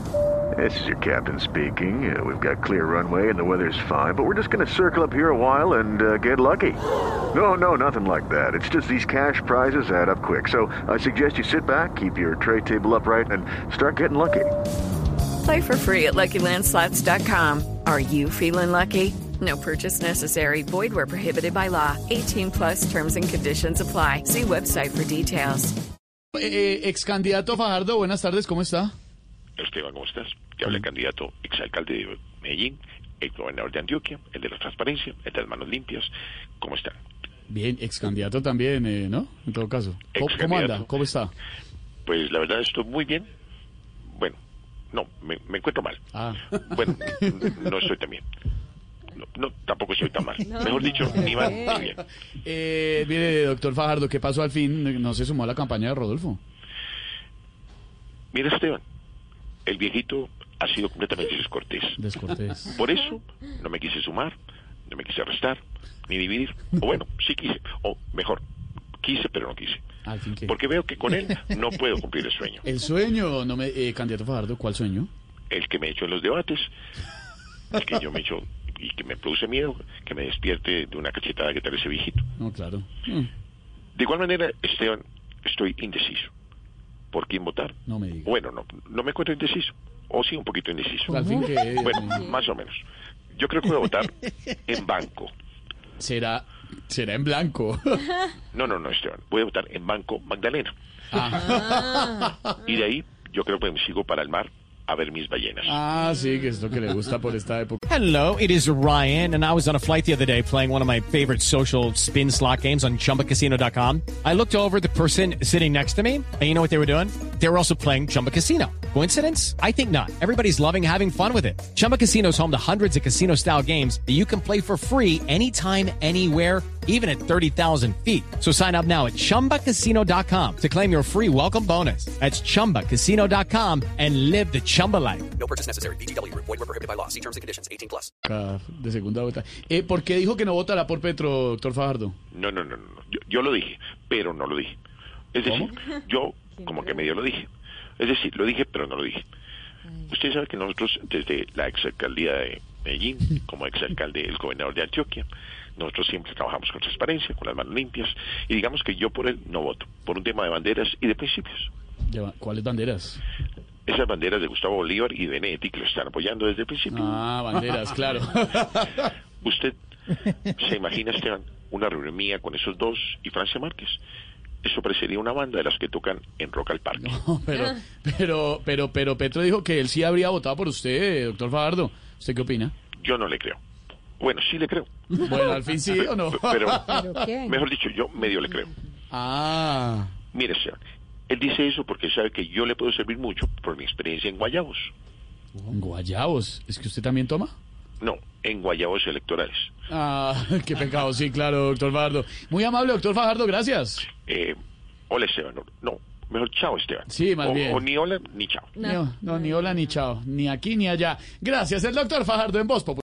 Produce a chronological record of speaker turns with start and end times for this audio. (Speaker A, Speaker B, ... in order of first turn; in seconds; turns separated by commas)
Speaker A: 0.5-6.8, Speaker A: 7.3-14.5, Speaker B: 15.4-25.7, Speaker C: 26.3-28.9, Speaker D: 29.6-37.0, Speaker C: 37.5-41.3, Speaker D: 40.1-40.9, Speaker D: 42.0-43.3, Speaker D: 44.1-44.4, Speaker D: 44.9-46.0, Speaker C: 46.1-47.5, Speaker D: 46.6-48.2, Speaker D: 49.2-52.0, Speaker C: 51.0-56.4, Speaker D: 58.3-58.8, Speaker D: 59.6-62.0, Speaker C: 62.0-62.7, Speaker D: 62.7-64.3, Speaker D: 64.9-68.4, Speaker D: 69.0-69.8, Speaker C: 70.0-70.5, Speaker D: 70.5-72.7, Speaker C: 72.6-75.1, Speaker D: 75.5-76.7, Speaker D: 77.7-82.2, Speaker C: 82.4-83.3, Speaker D: 84.0-86.3, Speaker D: 87.1-92.8, Speaker C: 87.9-88.3, Speaker C: 91.1-92.3, Speaker D: 93.3-94.1, Speaker D: 94.7-95.3, Speaker C: 96.0-98.1, Speaker D: 98.5-100.7, Speaker C: 101.1-102.5, Speaker D: 102.6-105.8, Speaker C: 105.6-107.8, Speaker E: 107.9-135.2, Speaker F: 135.4-138.0, Speaker C: 138.2-142.2, Speaker D: 142.3-144.8, Speaker D: 145.3-149.2, Speaker C: 145.4-145.7, Speaker D: 150.1-155.2, Speaker D: 155.8-161.7, Speaker C: 162.1-163.2, Speaker D: 163.9-167.2, Speaker C: 166.9-169.1, Speaker D: 169.4-169.7, Speaker D: 170.5-174.0, Speaker D: 174.6-177.2, Speaker C: 177.0-182.7, Speaker D: 183.0-183.6, Speaker D: 184.2-188.7, Speaker C: 185.2-187.3, Speaker C: 189.1-190.1, Speaker D: 190.3-194.9, Speaker C: 195.6-197.5, Speaker D: 198.0-199.7, Speaker C: 199.9-204.1, Speaker D: 204.2-204.6, Speaker D: 205.1-208.8, Speaker C: 207.1-207.8, Speaker C: 208.8-213.0